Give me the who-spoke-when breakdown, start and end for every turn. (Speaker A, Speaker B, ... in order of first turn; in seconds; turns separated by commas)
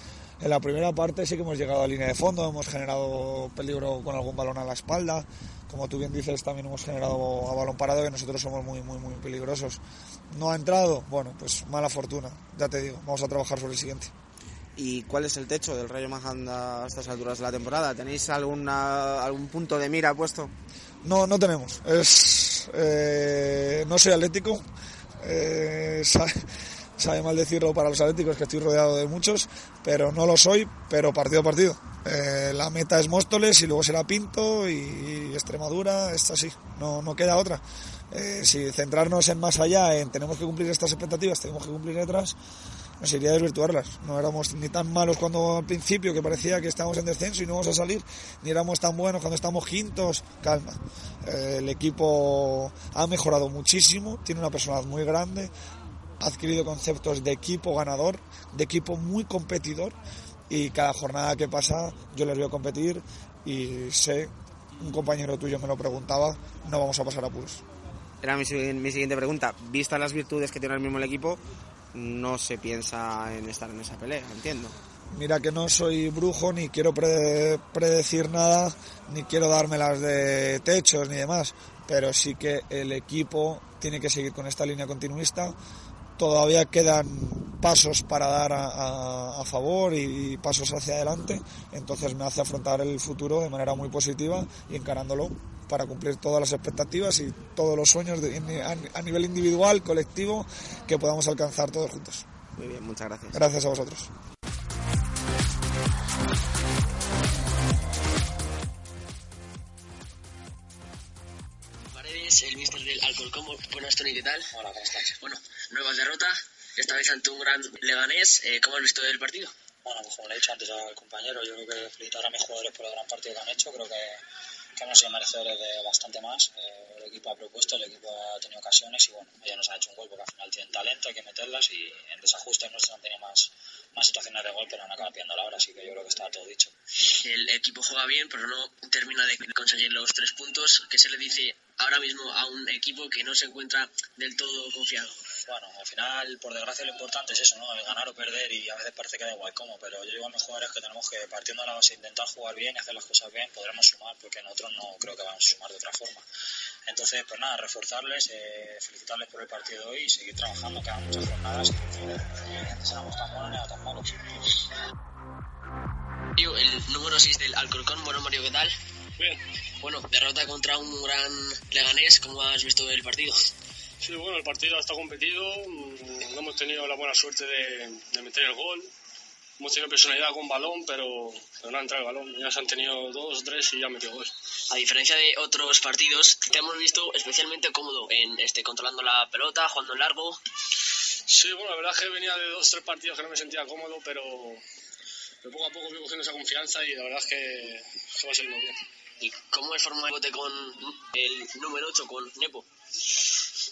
Speaker A: 0.4-9.8, Speaker A: 10.3-14.1, Speaker B: 14.8-20.5, Speaker A: 21.0-24.6, Speaker A: 25.2-26.3, Speaker A: 27.0-42.4, Speaker A: 43.0-55.5, Speaker A: 56.2-60.0, Speaker A: 60.5-67.6, Speaker B: 68.2-71.4, Speaker B: 71.9-74.8, Speaker A: 75.1-85.5, Speaker A: 86.2-102.3, Speaker B: 102.6-103.4, Speaker A: 103.3-104.1, Speaker C: 111.9-114.5, Speaker D: 114.5-115.2, Speaker C: 115.2-119.5, Speaker D: 119.8-124.2, Speaker D: 124.8-136.7, Speaker C: 137.2-145.2, Speaker D: 145.4-156.2, Speaker D: 156.9-164.1, Speaker C: 166.4-168.7, Speaker C: 169.8-173.4, Speaker E: 174.0-178.9, Speaker E: 179.6-184.3, Speaker C: 184.7-190.4, Speaker E: 191.3-194.6, Speaker E: 195.4-198.8, Speaker C: 199.2-202.7